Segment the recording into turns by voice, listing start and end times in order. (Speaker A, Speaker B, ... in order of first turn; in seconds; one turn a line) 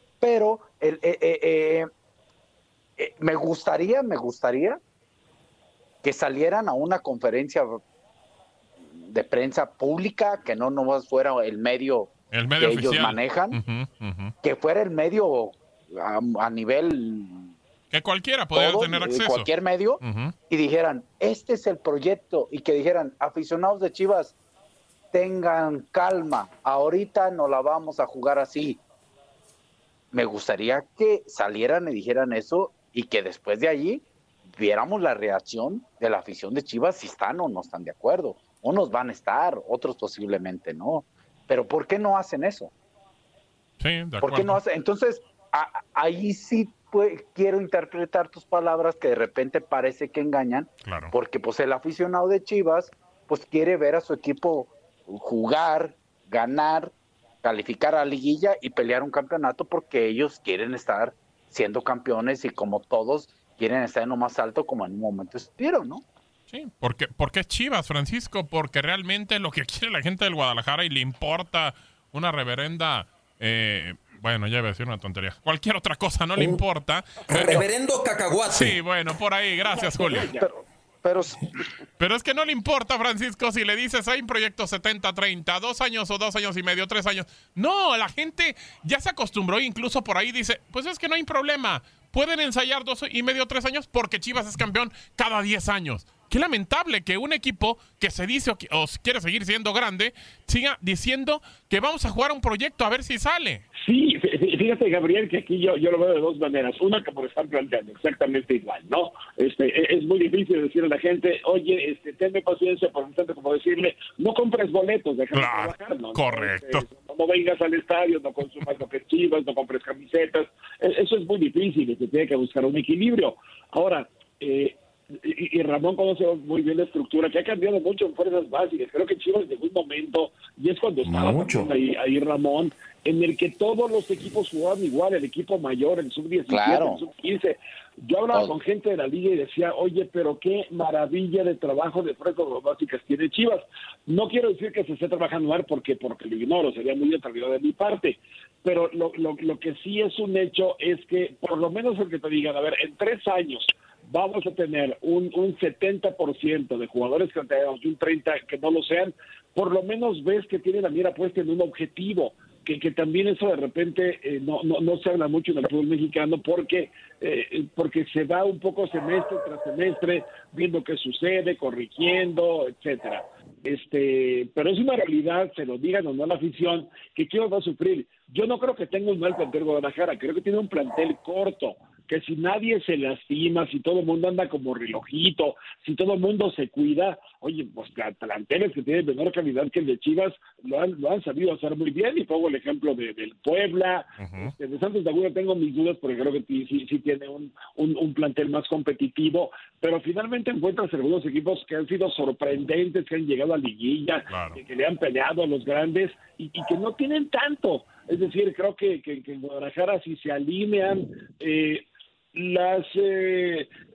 Speaker A: 0.2-1.9
Speaker A: 3.0-4.8
Speaker A: 6.0-7.7
Speaker A: 9.0-13.6
Speaker B: 12.3-14.3
Speaker A: 14.4-17.5
Speaker B: 17.9-19.5
Speaker A: 18.5-24.3
Speaker B: 20.0-20.3
Speaker A: 25.1-28.8
Speaker A: 30.1-42.7
Speaker B: 43.8-44.6
Speaker A: 44.2-56.9
Speaker B: 50.8-51.1
Speaker A: 57.4-66.0
Speaker B: 66.5-77.7
Speaker C: 77.3-78.8
Speaker B: 78.5-80.3
Speaker D: 79.7-80.5
Speaker A: 80.4-81.5
Speaker B: 82.0-103.6
Speaker D: 103.8-213.7
Speaker B: 115.3-116.8
Speaker C: 131.0-131.7
Speaker A: 136.5-137.0
Speaker B: 194.2-194.5
Speaker B: 204.3-204.6